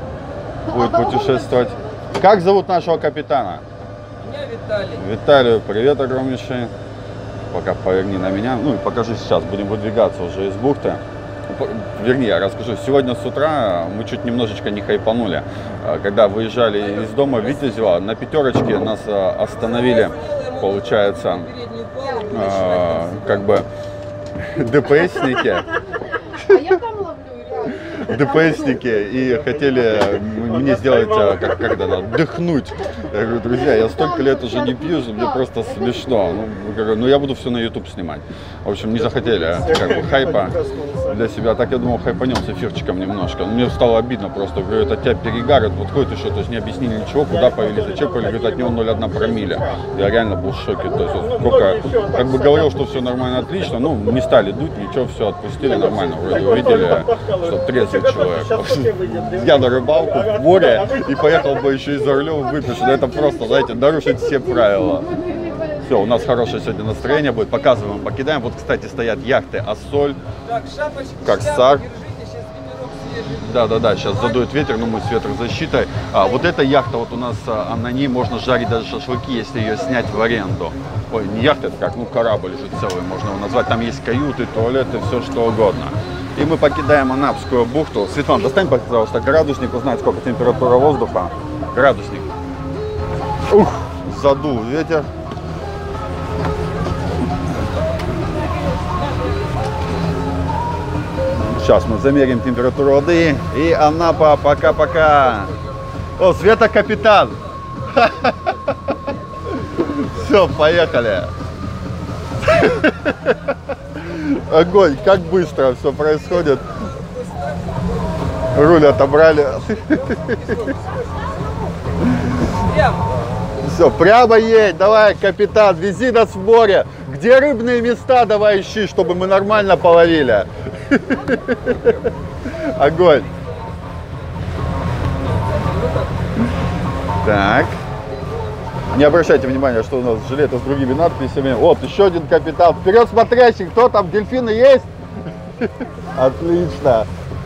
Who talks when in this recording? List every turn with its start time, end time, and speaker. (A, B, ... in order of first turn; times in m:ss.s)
0:00.6-0:03.6 A
0:04.8-0:06.7 A
0:07.5-0:23.7 A
0:24.4-0:26.7 A
0:26.3-0:28.0 B
0:27.7-1:10.2 A
1:05.2-1:05.6 B
1:10.7-1:10.9 C
1:11.1-1:12.0 A
1:12.1-1:13.2 C
1:13.2-1:32.3 A
1:33.5-1:35.1 A
1:41.4-1:45.6 A
1:46.2-1:48.8 A
1:49.5-1:51.3 A
1:52.4-1:56.8 A
1:58.5-2:00.9 A
2:02.0-2:02.5 A
2:03.6-2:13.3 A
2:15.4-2:16.0 C
2:17.2-2:17.8 A
2:18.9-2:24.9 A
2:25.5-2:27.1 A